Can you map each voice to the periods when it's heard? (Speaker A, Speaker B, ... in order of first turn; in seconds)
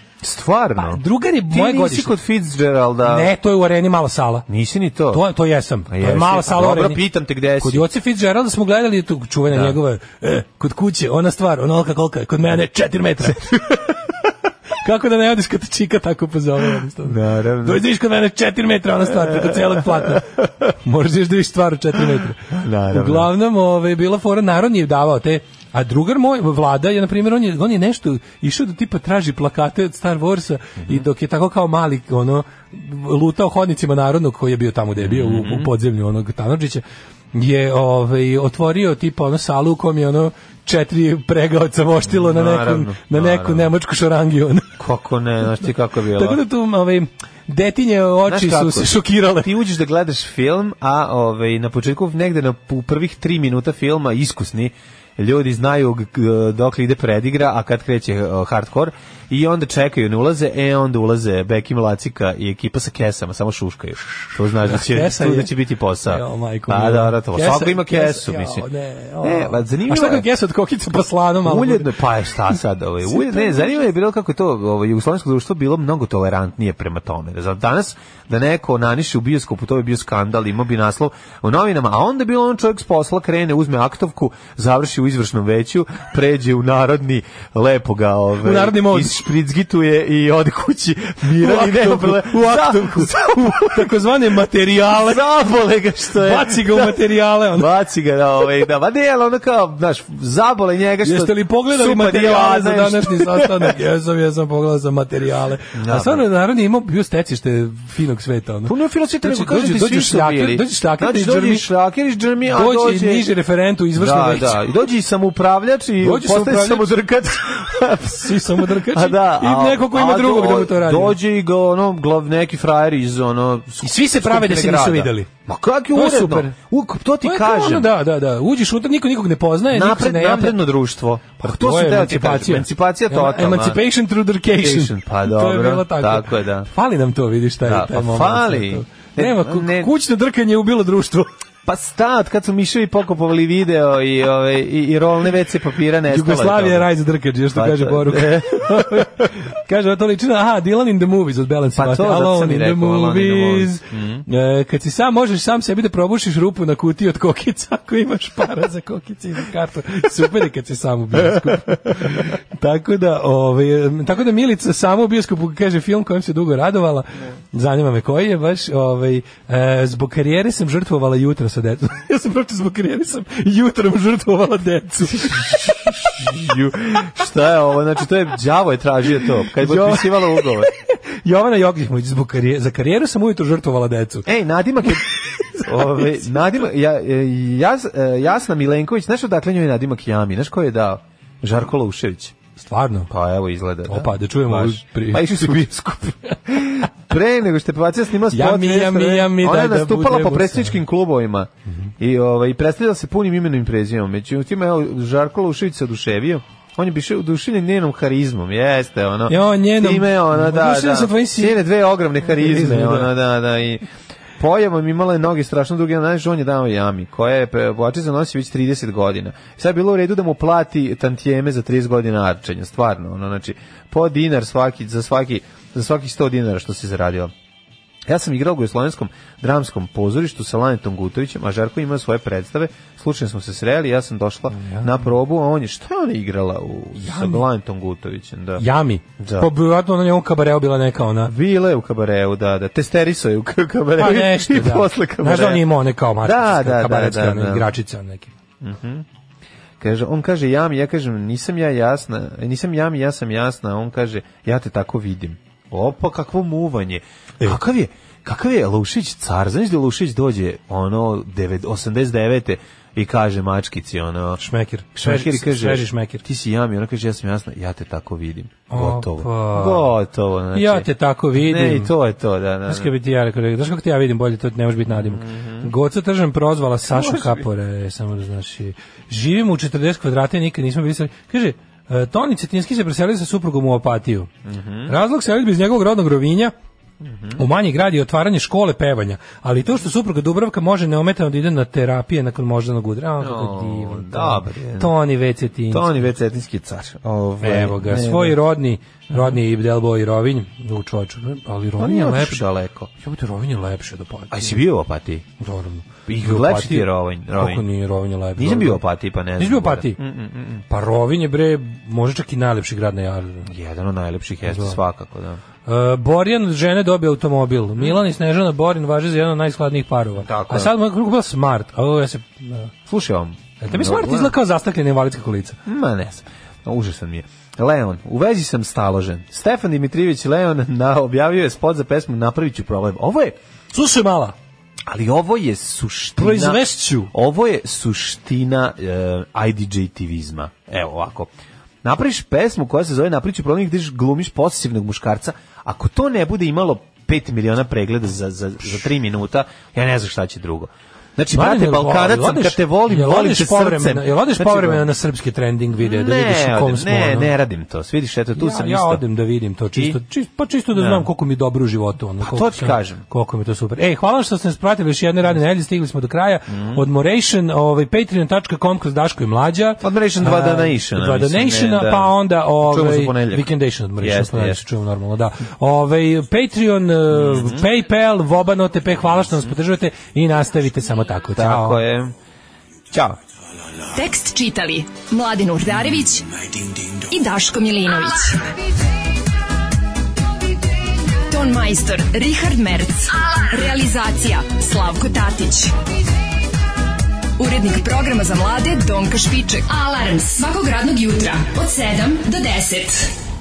Speaker A: 0.2-3.3, 4.5-5.2, 5.9-7.8, 9.5-9.8, 17.0-17.8, 19.2-20.5, 22.1-23.3, 30.8-31.1, 35.0-35.7, 42.0-43.7, 44.8-46.4, 48.3-68.7, 69.2-70.3, 71.4-94.0, 94.8-103.7, 105.7-106.2, 108.7-113.2, 114.0-127.9, 129.7-133.8, 134.5-136.7, 137.6-139.9, 141.7-146.9, 147.5-149.3, 151.7-154.3, 161.2-162.3, 175.4-180.7, 184.2-185.1, 185.6-192.3, 193.1-213.8, 214.4-227.3, 228.1-239.5, 241.2-245.7, 246.2-247.7, 248.6-249.1, 249.8-264.4, 264.9-272.9, 274.9-275.7, 276.9-277.4, 284.4-284.9, 287.0-287.4, 293.2-294.9, 295.7-298.4, 299.1-299.4, 301.8-302.9, 304.3-305.2, 306.1-307.6, 308.4-310.6, 313.4-315.4, 320.2-320.7, 322.9-324.3, 325.6-333.4, 334.9-341.3, 341.8-354.9, 355.8-359.0, 360.7-361.1, 362.2-363.0, 366.5-366.8, 369.8-374.6, 377.1-377.7, 381.4-382.1, 382.9-383.2
Speaker B: 0.8-2.1, 3.0-4.5, 5.1-7.0, 7.6-13.9, 14.8-44.7, 46.1-49.5, 64.6-71.9, 73.0-73.8, 88.4-89.2, 91.3-95.2, 96.1-97.7, 101.0-111.7, 112.5-114.6, 116.0-116.9, 118.0-121.2, 123.8-125.3, 125.9-126.5, 127.2-130.6, 131.4-141.3, 146.1-176.3, 179.2-184.3, 184.9-186.4, 192.6-193.1, 193.8-195.6, 198.3-200.8, 209.3-211.6, 212.2-213.1, 234.5-234.9, 237.0-237.4, 238.6-241.3, 244.0-248.3, 264.4-266.2, 268.7-269.9, 270.5-271.9, 272.6-284.3, 284.9-286.5, 287.4-296.1, 297.4-302.4, 303.0-304.6, 305.4-308.8, 309.4-310.0, 310.7-313.5, 314.5-314.8, 315.6-322.7, 323.6-325.6, 333.7-334.3, 336.2-337.1, 351.3-357.3, 358.4-381.8
Speaker C: 383.9-386.4, 387.0-388.5, 391.2-395.7, 397.4-403.2